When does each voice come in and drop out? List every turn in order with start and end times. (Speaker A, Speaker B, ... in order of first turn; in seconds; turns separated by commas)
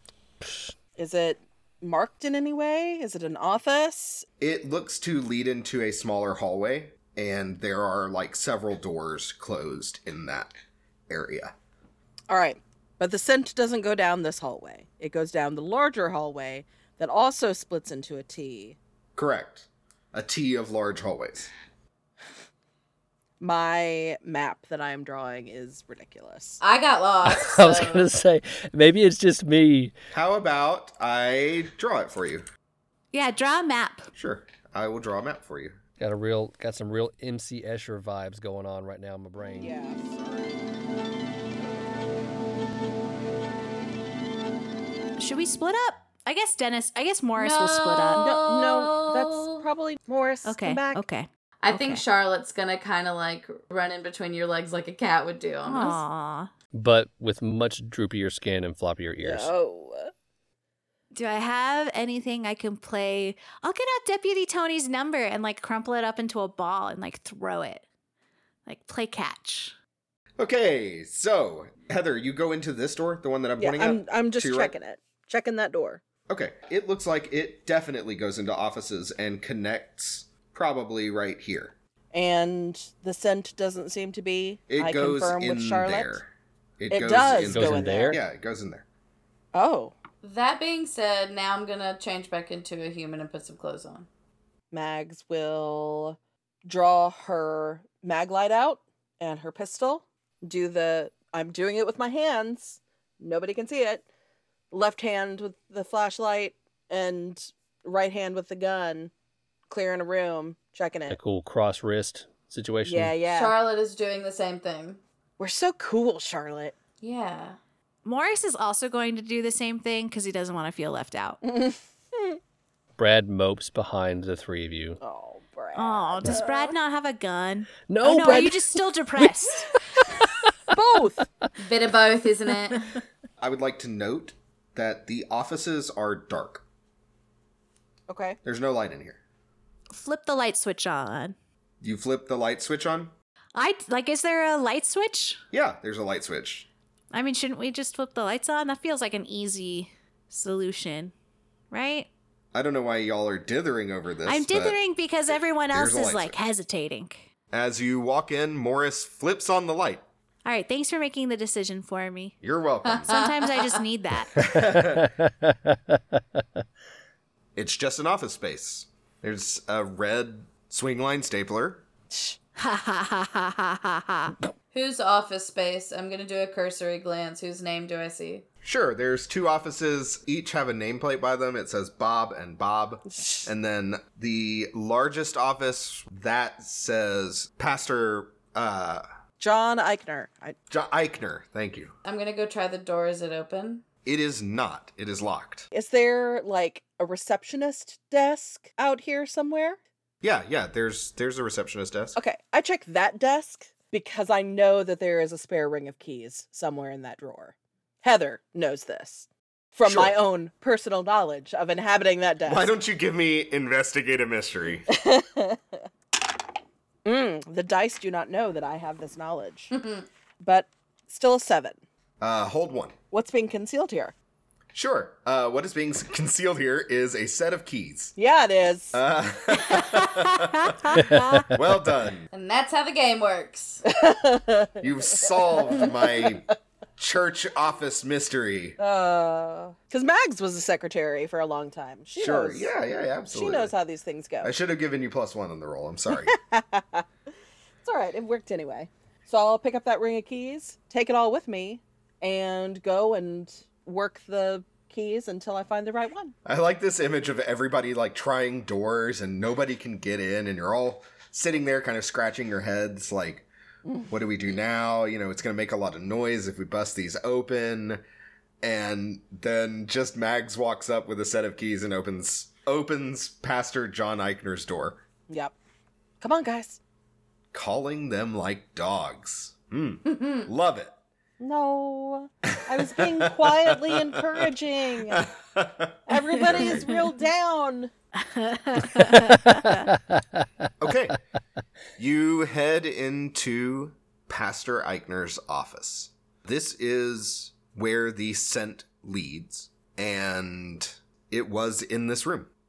Speaker A: 1.0-4.2, Speaker B: 4.4-10.5, Speaker B: 11.1-11.5, Speaker A: 12.3-18.8, Speaker B: 19.1-21.5, Speaker A: 23.4-26.6, Speaker C: 26.6-28.1, Speaker D: 27.2-29.9, Speaker B: 30.1-32.5, Speaker E: 33.1-34.1, Speaker B: 34.1-35.8, Speaker D: 36.0-39.7, Speaker A: 39.6-40.5, Speaker E: 45.2-48.3, Speaker C: 47.4-49.6, Speaker A: 48.1-51.0, Speaker E: 50.4-52.0, Speaker C: 51.6-56.0, Speaker E: 55.6-56.5, Speaker D: 56.7-59.5, Speaker A: 59.2-60.1, Speaker E: 61.1-67.8, Speaker E: 68.7-69.7, Speaker B: 70.4-74.7, Speaker A: 73.6-76.0, Speaker B: 76.3-81.7, Speaker A: 82.1-86.2, Speaker B: 84.7-88.8, Speaker A: 86.9-88.2, Speaker D: 87.5-88.2, Speaker A: 89.5-89.9, Speaker C: 90.2-94.1, Speaker A: 94.7-104.0, Speaker A: 104.7-109.1, Speaker A: 109.7-111.2, Speaker D: 111.1-113.2, Speaker A: 112.8-113.5, Speaker C: 113.3-115.0, Speaker A: 115.4-116.7, Speaker C: 117.0-117.6, Speaker E: 118.0-121.4, Speaker A: 121.4-122.4, Speaker D: 123.0-125.0, Speaker A: 125.0-126.7, Speaker E: 125.7-129.7, Speaker D: 127.9-128.6, Speaker A: 128.1-128.5, Speaker A: 130.7-131.3, Speaker C: 131.6-132.9, Speaker B: 133.4-136.6, Speaker A: 138.1-138.4, Speaker B: 138.4-139.2, Speaker E: 139.9-141.3, Speaker B: 141.8-143.1, Speaker E: 143.5-145.4, Speaker B: 145.5-146.7, Speaker E: 147.1-151.1, Speaker E: 151.7-152.1, Speaker B: 152.5-154.8, Speaker E: 154.2-157.2, Speaker B: 155.3-156.4, Speaker B: 157.5-160.0, Speaker E: 160.4-162.3, Speaker B: 162.4-163.1, Speaker C: 162.8-163.8, Speaker E: 163.1-164.4, Speaker B: 164.3-165.1, Speaker D: 164.6-166.4, Speaker B: 167.5-171.8, Speaker A: 172.1-172.4, Speaker E: 172.6-174.3, Speaker C: 174.7-178.4, Speaker B: 178.6-189.0, Speaker A: 183.1-183.5, Speaker A: 189.4-190.6, Speaker B: 190.7-191.9, Speaker C: 192.0-193.8, Speaker B: 194.0-195.7, Speaker A: 195.7-199.8, Speaker B: 200.2-202.2, Speaker A: 202.1-212.7, Speaker B: 209.8-210.2, Speaker B: 212.4-214.9, Speaker A: 214.9-215.8, Speaker A: 217.0-219.7, Speaker C: 219.7-220.0, Speaker A: 220.4-221.8, Speaker B: 222.2-222.9, Speaker A: 223.1-224.1, Speaker B: 224.7-228.2, Speaker A: 228.2-229.0, Speaker B: 228.9-232.3, Speaker E: 229.8-230.1, Speaker D: 230.9-231.4, Speaker C: 232.3-233.8, Speaker A: 233.9-236.4, Speaker B: 234.8-236.4, Speaker B: 237.0-238.8, Speaker A: 238.8-242.7, Speaker B: 242.2-243.7, Speaker A: 243.3-244.5, Speaker B: 244.4-246.3, Speaker A: 246.2-247.0, Speaker A: 247.8-256.3, Speaker B: 256.4-263.5, Speaker B: 264.1-268.0, Speaker B: 268.6-275.0, Speaker A: 275.3-275.5, Speaker A: 276.2-276.8, Speaker B: 277.5-280.9, Speaker A: 281.4-285.3, Speaker B: 282.6-284.5, Speaker B: 285.0-286.9, Speaker A: 286.1-287.9, Speaker E: 288.2-289.9, Speaker D: 289.0-290.4, Speaker B: 290.8-291.2, Speaker B: 292.0-302.5